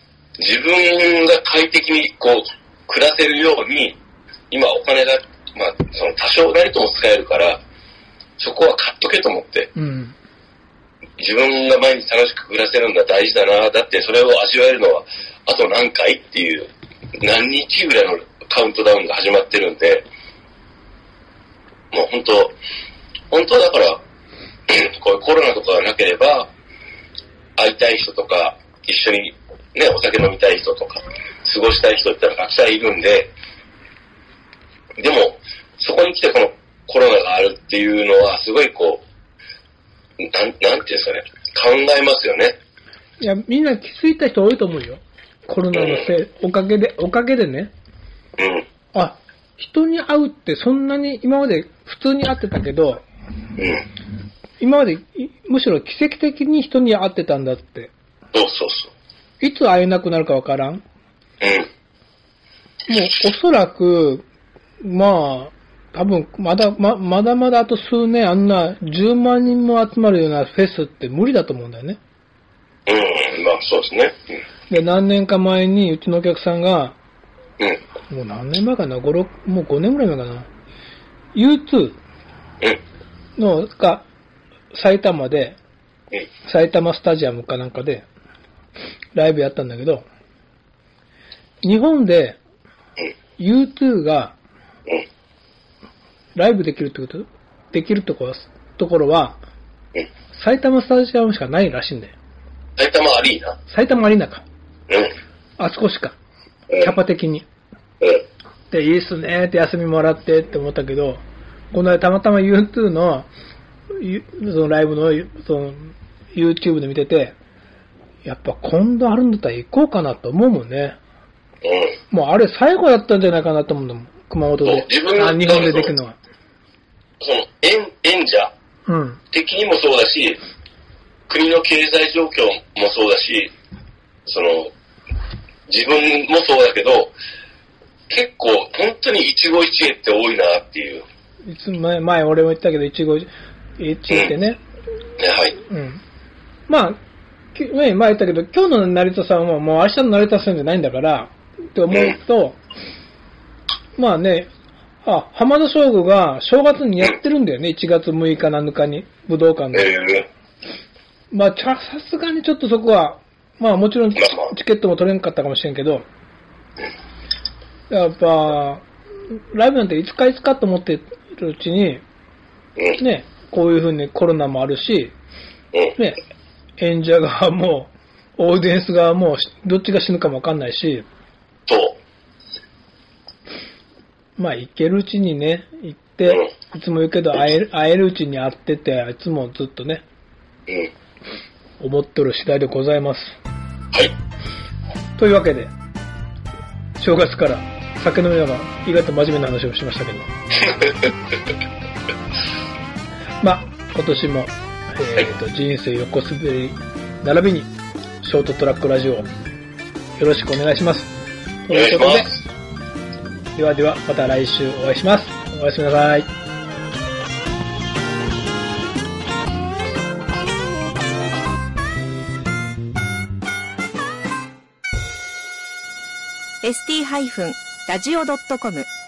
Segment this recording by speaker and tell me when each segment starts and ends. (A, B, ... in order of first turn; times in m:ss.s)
0:00.4-0:04.0 A
0:04.5-0:07.6 A
0:08.4-0:09.7 A
0:09.8-0:10.1 B
0:11.2-0:20.0 A
0:21.9-0:22.6 A
0:23.3-0:24.0 A
0:24.7-0:26.5 A
0:27.6-0:33.3 A
0:35.0-0:39.0 A
0:40.2-0:42.6 A
0:43.2-0:47.7 B
0:45.7-0:46.1 A
0:48.4-0:48.7 A
0:48.9-0:53.0 B
0:53.6-0:53.9 A
0:54.6-0:57.9 B
0:58.3-0:58.9 A
0:59.4-1:00.8 B
1:01.4-1:01.7 A
1:02.9-1:04.2 B
1:04.8-1:12.0 B
1:12.9-1:14.2 A
1:14.7-1:17.0 B
1:18.1-1:20.5 B
1:21.3-1:22.0 B
1:23.4-1:24.0 B
1:24.7-1:25.6 B
1:26.4-1:28.0 B
1:29.1-1:30.0 B
1:31.6-1:32.4 B
1:33.4-1:34.4 B
1:36.3-1:39.4 B
1:40.3-1:42.1 B
1:42.8-1:43.6 A
1:43.7-1:44.4 B
1:45.6-1:46.2 B
1:46.7-1:47.0 A
1:46.8-1:47.4 B
1:48.7-1:53.3 B
1:53.9-1:57.3 B
1:58.2-2:01.0 B
2:01.6-2:02.0 A
2:02.1-2:06.2 B
2:04.6-2:05.9 A
2:07.2-2:08.5 A
2:08.9-2:09.2 B
2:09.3-2:10.4 A
2:11.3-2:13.5 A
2:14.3-2:14.7 A
2:15.7-2:17.1 A
2:18.1-2:21.0 A
2:21.4-2:24.6 B
2:25.2-2:25.6 A
2:25.7-2:26.0 B
2:26.7-2:27.0 B
2:27.5-2:32.6 B
2:31.9-2:32.2 A
2:34.0-2:34.5 B
2:35.0-2:39.9 B
2:39.7-2:40.3 A
2:41.3-2:46.0 B
2:44.2-2:44.5 A
2:47.9-2:48.8 B
2:49.5-2:52.0 B
2:53.0-2:55.1 B
2:56.8-3:01.0 B
3:01.7-3:02.0 A
3:04.4-3:10.0 B
3:11.8-3:13.4 B
3:15.2-3:15.7 B
3:17.0-3:20.3 B
3:20.7-3:21.1 A
3:23.4-3:29.3 B
3:30.2-3:31.1 B
3:31.6-3:32.3 B
3:31.7-3:32.3 A
3:33.5-3:36.3 B
3:46.6-3:48.9 C